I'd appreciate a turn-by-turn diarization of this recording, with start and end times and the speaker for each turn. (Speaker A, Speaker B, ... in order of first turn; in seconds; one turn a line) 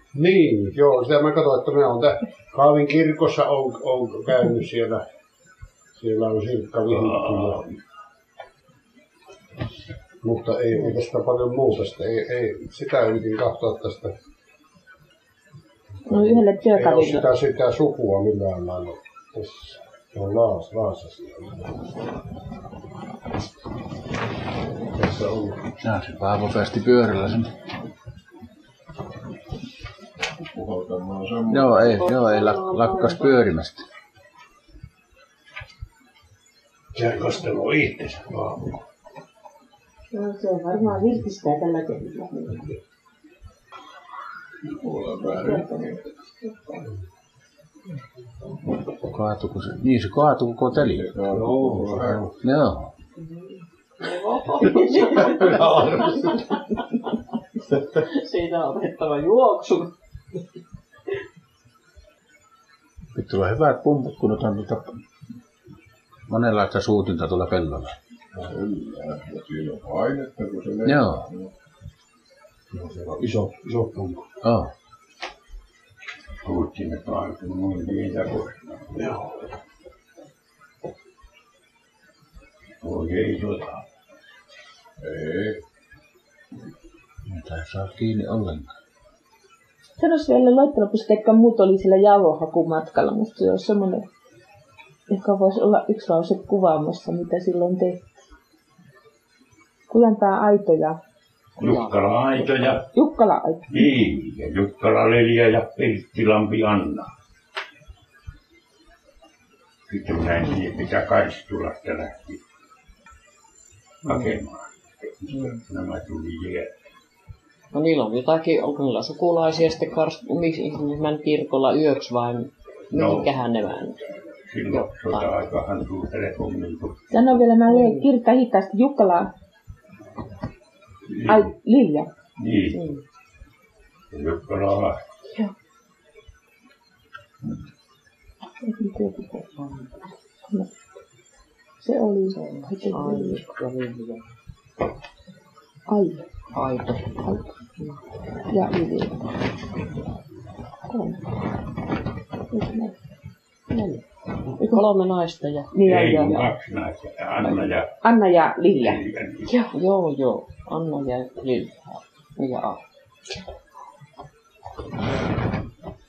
Speaker A: 0.1-5.0
Speaker A: 6.0-7.6
Speaker B: 6.9-7.8
Speaker A: 10.2-14.1
Speaker A: 16.1-21.7
Speaker C: 16.1-17.3
Speaker A: 24.9-25.6
Speaker D: 25.8-27.5
Speaker E: 30.5-32.1
Speaker D: 31.5-33.8
Speaker F: 31.9-33.4
Speaker A: 36.9-38.7
Speaker C: 40.1-42.7
Speaker E: 44.6-46.1
Speaker D: 49.1-51.1
Speaker E: 50.7-52.3
Speaker A: 51.3-52.3
Speaker D: 52.4-52.9
Speaker F: 53.2-56.6
Speaker A: 55.5-56.0
Speaker F: 57.7-59.9
Speaker D: 63.1-64.8
Speaker D: 66.3-67.9
Speaker E: 68.4-71.5
Speaker D: 70.8-71.2
Speaker A: 72.7-74.3
Speaker D: 74.4-74.7
Speaker B: 76.4-78.9
Speaker A: 78.9-79.4
Speaker B: 82.8-83.8
Speaker E: 85.0-85.6
Speaker D: 87.3-88.7
Speaker C: 90.0-94.0
Speaker C: 95.1-98.0
Speaker C: 99.9-101.0
Speaker B: 101.6-102.9
Speaker F: 101.6-102.0
Speaker C: 102.9-103.7
Speaker B: 103.7-107.1
Speaker B: 109.9-112.4
Speaker F: 114.0-114.3
Speaker B: 114.0-116.7
Speaker F: 115.3-115.6
Speaker F: 117.7-124.0
Speaker B: 122.9-123.4
Speaker B: 124.5-127.0
Speaker F: 124.7-125.4
Speaker C: 127.1-129.3
Speaker F: 127.7-128.1
Speaker B: 131.1-131.5
Speaker C: 131.3-132.1
Speaker B: 132.4-132.9
Speaker F: 132.7-133.0
Speaker B: 134.1-135.0
Speaker C: 138.6-139.4
Speaker F: 139.5-139.9
Speaker C: 141.8-143.4
Speaker F: 142.3-144.2
Speaker C: 145.9-146.2
Speaker F: 146.5-147.2
Speaker C: 148.5-149.2
Speaker C: 150.9-151.2
Speaker C: 152.5-152.9
Speaker F: 153.7-154.0
Speaker F: 154.5-155.7
Speaker C: 155.7-156.5
Speaker B: 155.8-157.9
Speaker C: 158.0-159.0
Speaker B: 158.8-159.5
Speaker F: 159.5-162.8